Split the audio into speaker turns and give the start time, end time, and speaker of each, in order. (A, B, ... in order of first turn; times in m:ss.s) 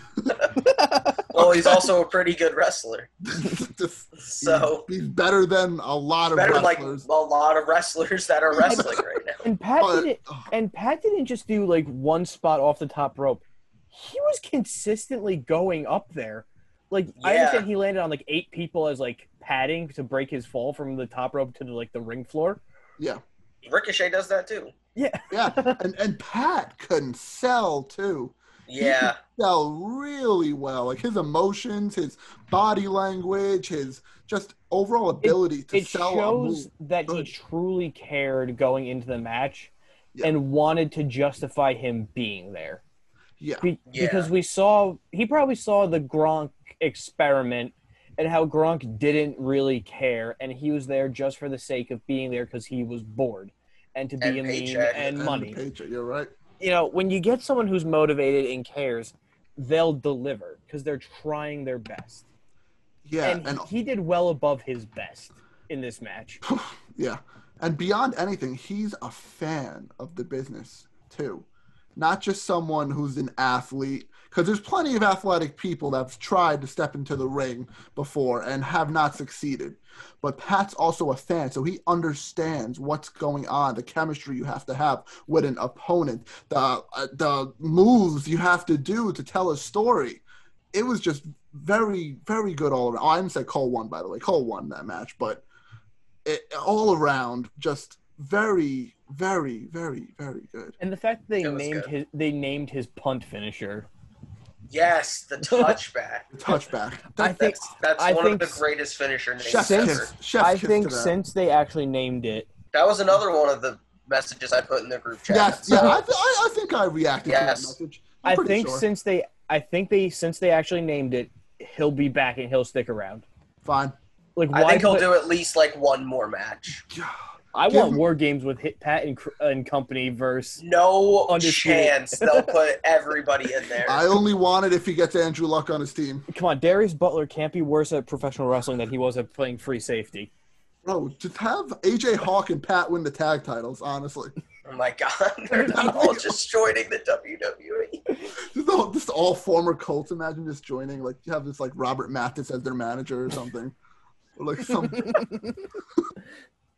0:00.6-0:01.2 A
0:01.3-0:03.1 B
0:01.4-0:01.9 C
0:03.2-0:07.1 C
0:04.2-0:04.9 B
0:06.3-0:09.4 B
0:08.6-0:09.0 C
0:09.4-0:22.6 A
0:09.8-0:10.5 C
0:17.2-0:17.7 B
0:23.6-0:24.7 B
0:25.0-0:25.8 A
0:25.3-0:37.3 C
0:28.7-0:29.2 B
0:35.2-0:42.8 A
0:43.4-0:43.7 C
0:43.6-0:55.6 A
0:43.9-0:44.3 B
0:54.2-0:55.1 B
0:54.9-0:56.3 C
0:56.6-1:02.3 A
1:03.0-1:03.7 C
1:03.2-1:06.4 A
1:06.4-1:30.2 C
1:30.7-1:35.4 C
1:36.2-1:40.8 C
1:40.8-1:43.9 A
1:41.4-1:41.9 B
1:44.7-1:46.3 B
1:45.5-1:45.8 A
1:46.3-1:47.5 C
1:47.2-1:48.6 A
1:47.2-1:50.1 B
1:49.4-1:51.2 C
1:49.5-1:52.5 A
1:52.7-1:56.0 B
1:55.3-1:58.9 C
1:57.2-1:57.8 B
1:58.2-2:03.2 A
2:03.6-2:04.0 C
2:04.4-2:05.1 A
2:04.5-2:06.8 B
2:06.9-2:08.0 C
2:07.6-2:10.6 A
2:10.6-2:14.0 B
2:11.3-2:12.5 A
2:13.8-2:16.3 C
2:16.3-2:20.3 A
2:20.8-2:24.3 C
2:24.7-2:28.1 B
2:25.5-2:26.4 C
2:28.4-2:33.8 C
2:34.4-2:35.3 C
2:35.0-2:35.3 A